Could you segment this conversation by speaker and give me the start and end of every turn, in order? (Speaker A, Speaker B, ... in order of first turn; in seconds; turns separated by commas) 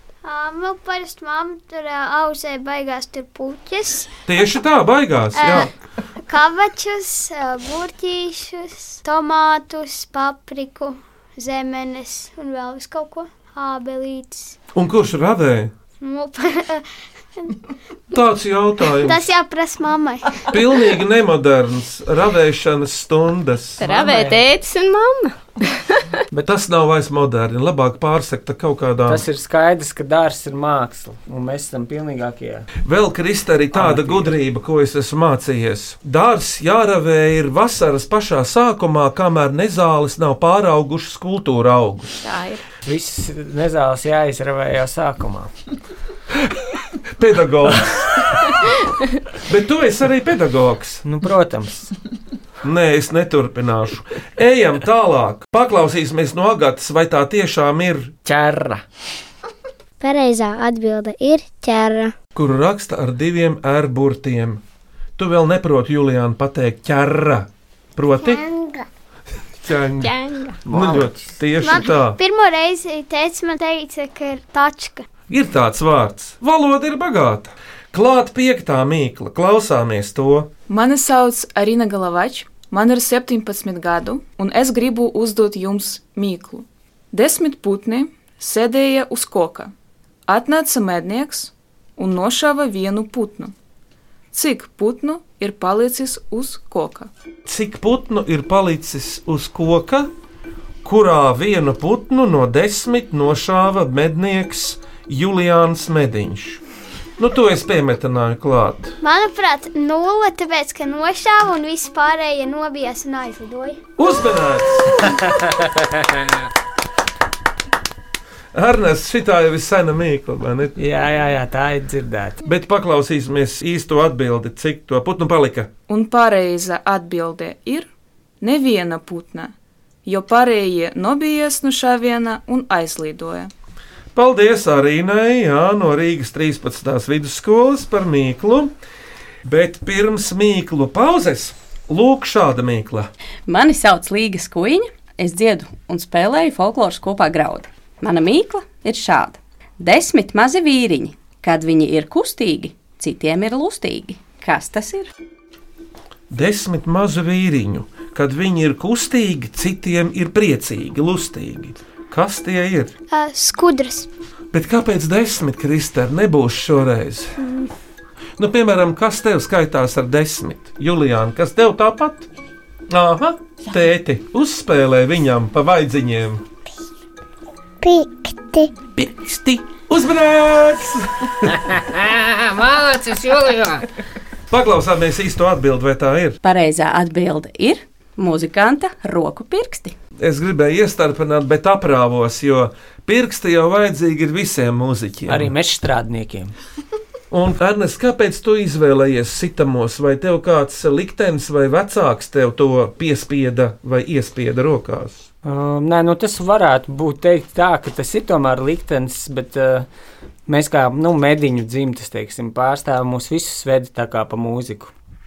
Speaker A: 0.2-4.1, Speaker B: 4.3-5.7, Speaker A: 5.3-5.7, Speaker A: 6.2-14.6, Speaker B: 14.8-15.7, Speaker A: 16.0-16.9, Speaker B: 18.1-19.2, Speaker A: 18.9-20.5, Speaker B: 20.5-23.8, Speaker C: 23.8-24.4, Speaker D: 23.8-25.4, Speaker B: 26.4-29.2, Speaker C: 29.1-32.7, Speaker B: 32.8-42.2, Speaker C: 33.7-34.4, Speaker D: 42.2-42.6, Speaker C: 42.9-45.5, Speaker B: 47.2-48.5, Speaker B: 49.5-51.0, Speaker C: 51.0-51.9, Speaker B: 52.6-58.1, Speaker C: 58.2-58.8, Speaker E: 60.0-62.1, Speaker B: 62.4-64.6, Speaker B: 65.2-68.4, Speaker E: 68.2-68.8, Speaker B: 69.6-72.2, Speaker D: 70.0-70.6, Speaker C: 70.7-71.4, Speaker A: 71.6-75.1, Speaker B: 75.3-80.5, Speaker F: 80.7-89.7, Speaker F: 90.3-93.5, Speaker F: 94.3-97.1, Speaker B: 97.5-100.1, Speaker B: 100.8-106.6, Speaker B: 107.2-109.0, Speaker A: 109.0-113.8, Speaker B: 114.0-115.2, Speaker C: 115.3-115.6, Speaker B: 118.5-120.8, Speaker C: 120.8-122.4, Speaker B: 122.5-125.7, Speaker F: 125.9-127.9, Speaker F: 128.4-129.5, Speaker F: 130.1-133.5, Speaker B: 134.2-138.7, Speaker B: 139.4-143.1, Speaker G: 143.5-155.1, Speaker B: 156.3-162.9, Speaker A: 163.1-164.1, Speaker B: 164.5-167.3, Speaker B: 168.4-172.3, Speaker B: 172.9-176.4, Speaker E: 177.8-178.7, Speaker B: 179.0-181.6, Speaker C: 181.7-183.9, Speaker B: 184.5-186.4, Speaker G: 186.4-189.9, Speaker B: 190.2-195.5, Speaker C: 195.3-196.5, Speaker B: 197.3-205.3, Speaker C: 205.4-209.9, Speaker C: 210.5-214.9